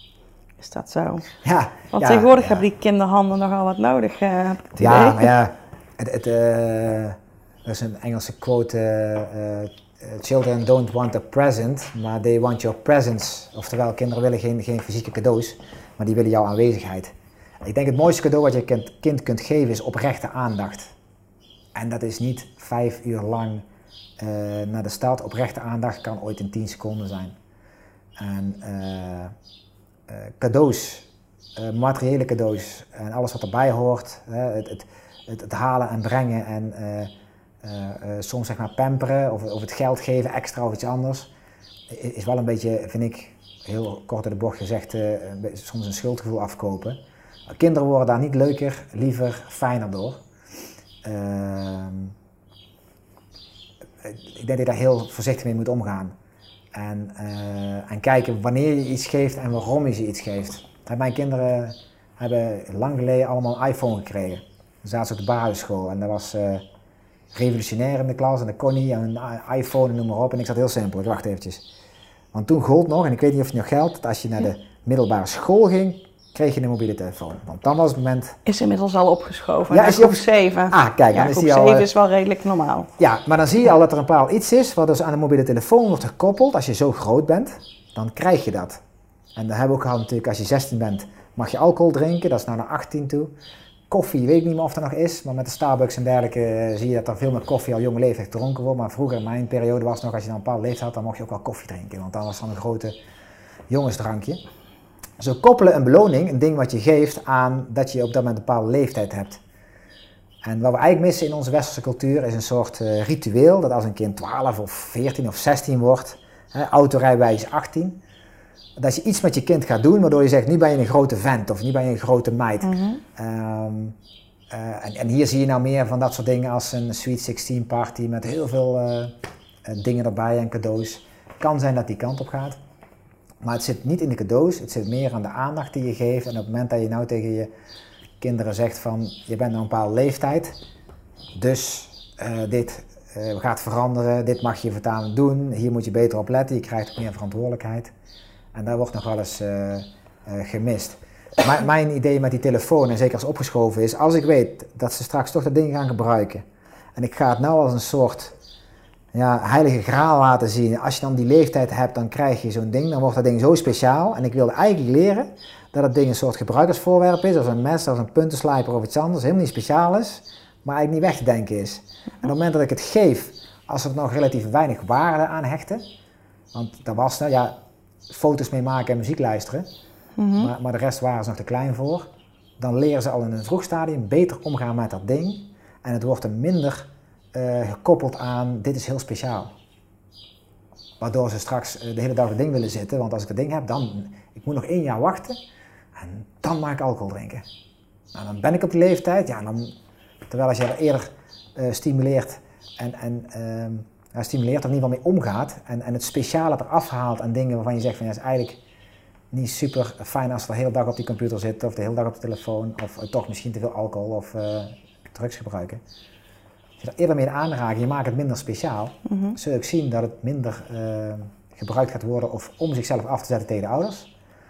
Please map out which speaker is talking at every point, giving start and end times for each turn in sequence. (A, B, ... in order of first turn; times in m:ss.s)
0:00.6-0:01.3 A
0:01.4-0:02.6 B
0:01.9-0:05.3 A
0:04.8-0:20.9 B
0:21.8-0:23.6 B
0:24.2-0:27.4 B
0:28.2-0:29.3 B
0:30.1-0:37.1 B
0:37.6-0:41.3 B
0:41.9-0:50.2 B
0:51.0-0:52.1 B
0:54.0-0:56.1 B
0:56.7-1:06.6 B
1:07.3-1:11.6 B
1:12.3-1:18.4 B
1:18.4-1:22.9 A
1:19.7-1:21.9 B
1:23.0-1:28.8 B
1:29.4-1:33.3 B
1:33.9-1:43.0 B
1:43.7-1:44.4 B
1:45.2-1:49.4 B
1:50.4-1:58.0 B
1:58.8-2:04.0 B
2:02.6-2:03.0 A
2:04.5-2:09.1 B
2:09.6-2:12.6 B
2:13.4-2:17.5 B
2:18.2-2:20.6 B
2:21.4-2:27.9 B
2:28.5-2:36.4 B
2:37.0-2:38.4 B
2:39.1-2:55.8 B
2:56.5-2:57.6 B
2:58.1-2:59.7 B
3:00.2-3:00.5 A
3:00.4-3:02.1 B
3:02.6-3:09.5 B
3:11.0-3:15.4 B
3:16.0-3:17.4 B
3:18.1-3:19.7 B
3:20.3-3:28.6 B
3:29.3-3:35.8 B
3:36.8-3:44.1 B
3:39.1-3:39.4 A